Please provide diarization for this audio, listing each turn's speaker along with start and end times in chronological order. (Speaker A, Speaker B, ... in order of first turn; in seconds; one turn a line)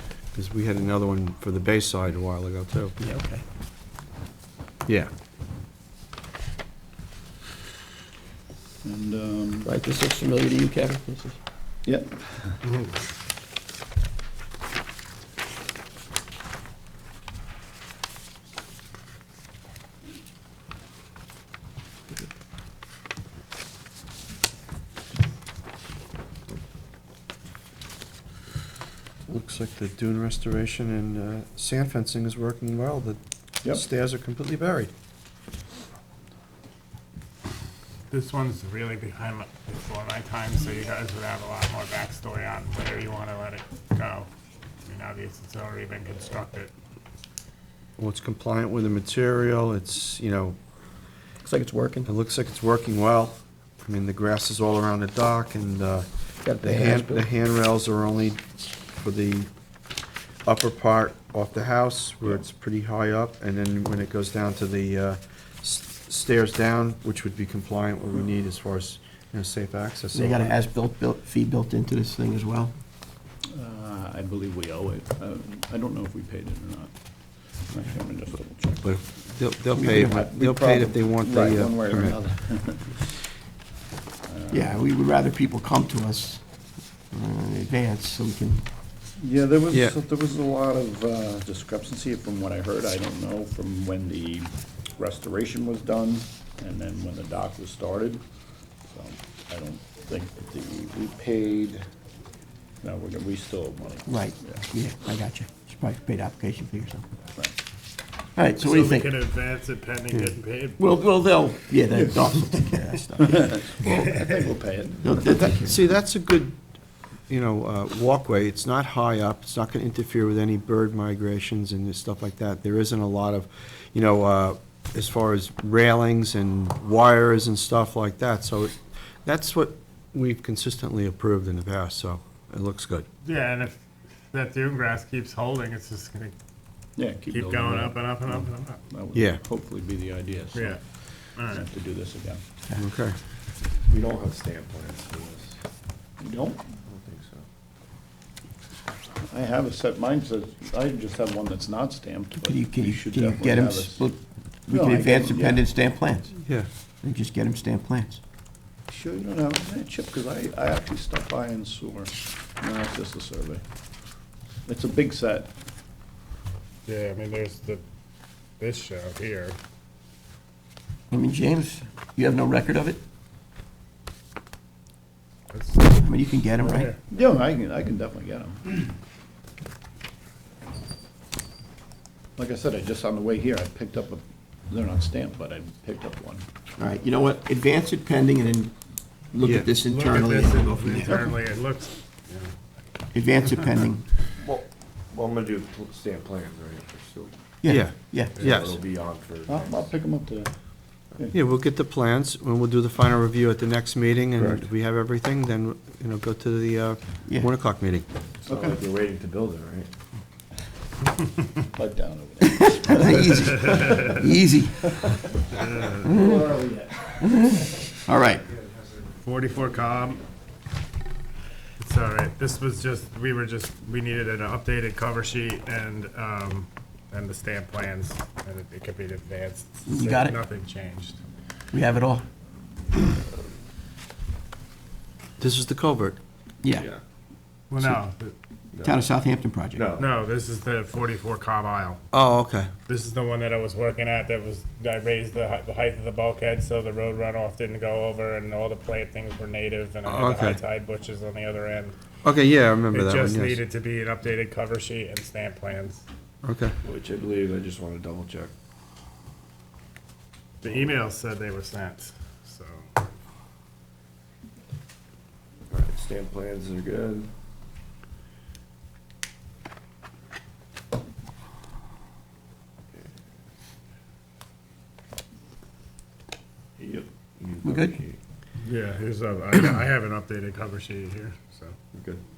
Speaker A: 0.3-3.0
Speaker B: 3.0-3.4
Speaker C: 8.8-9.7
Speaker B: 9.6-11.4
Speaker C: 11.8-12.6
Speaker D: 12.6-13.0
Speaker A: 29.3-34.9
Speaker D: 38.1-44.3
Speaker D: 44.8-46.7
Speaker A: 48.0-50.6
Speaker B: 51.4-52.1
Speaker A: 52.0-58.4
Speaker B: 56.4-57.2
Speaker A: 59.0-59.5
Speaker A: 60.5-70.5
Speaker B: 70.1-72.7
Speaker C: 73.5-76.9
Speaker C: 77.6-79.0
Speaker A: 78.8-82.2
Speaker C: 79.7-83.2
Speaker B: 79.8-80.2
Speaker C: 84.3-84.7
Speaker B: 84.5-86.4
Speaker B: 87.1-88.6
Speaker C: 89.2-98.2
Speaker C: 98.9-101.8
Speaker C: 102.8-104.6
Speaker B: 104.1-107.0
Speaker B: 108.3-109.1
Speaker D: 108.6-110.8
Speaker B: 110.8-114.0
Speaker C: 113.2-115.3
Speaker B: 115.0-115.8
Speaker A: 115.6-116.5
Speaker A: 117.3-133.1
Speaker D: 133.2-133.8
Speaker D: 134.3-136.3
Speaker C: 137.0-140.8
Speaker D: 137.3-138.8
Speaker A: 139.1-139.4
Speaker D: 140.5-140.8
Speaker D: 141.4-141.6
Speaker C: 141.4-142.4
Speaker A: 142.8-143.2
Speaker E: 143.9-145.6
Speaker C: 146.2-146.6
Speaker E: 146.8-147.4
Speaker C: 149.2-154.1
Speaker B: 152.4-156.3
Speaker C: 154.7-155.6
Speaker B: 157.0-158.2
Speaker C: 158.9-163.6
Speaker C: 164.7-165.5
Speaker D: 166.9-167.8
Speaker D: 168.6-169.6
Speaker B: 171.1-173.0
Speaker D: 175.5-176.0
Speaker B: 176.0-176.9
Speaker D: 176.6-177.0
Speaker C: 177.0-178.9
Speaker C: 182.4-186.4
Speaker B: 186.8-188.7
Speaker B: 189.3-191.2
Speaker A: 189.4-189.7
Speaker D: 189.7-192.5
Speaker C: 190.9-191.3
Speaker B: 193.1-194.1
Speaker E: 194.4-197.3
Speaker B: 197.6-198.4
Speaker A: 197.7-198.8
Speaker E: 198.4-199.9
Speaker C: 199.5-200.5
Speaker A: 201.3-208.0
Speaker C: 208.5-208.8
Speaker E: 208.5-209.9
Speaker C: 211.7-214.1
Speaker B: 212.4-215.0
Speaker D: 213.3-214.2
Speaker D: 215.5-216.1
Speaker C: 215.9-217.3
Speaker B: 216.0-216.6
Speaker B: 217.2-218.5
Speaker D: 219.2-220.2
Speaker D: 221.8-231.2
Speaker B: 229.9-230.4
Speaker B: 231.7-232.2
Speaker A: 235.4-236.2
Speaker E: 236.7-237.0
Speaker D: 237.7-238.3
Speaker E: 238.7-239.0
Speaker B: 238.8-239.9
Speaker E: 239.7-240.1
Speaker D: 240.0-242.0
Speaker A: 242.1-242.7
Speaker D: 242.9-251.9
Speaker A: 250.1-250.6
Speaker A: 252.2-253.6
Speaker D: 252.9-256.0
Speaker A: 256.4-256.8
Speaker E: 256.8-258.5
Speaker D: 260.6-262.9
Speaker E: 260.6-261.0
Speaker E: 265.7-267.3
Speaker E: 276.8-278.2
Speaker B: 277.6-278.0
Speaker D: 278.6-281.7
Speaker E: 281.9-282.2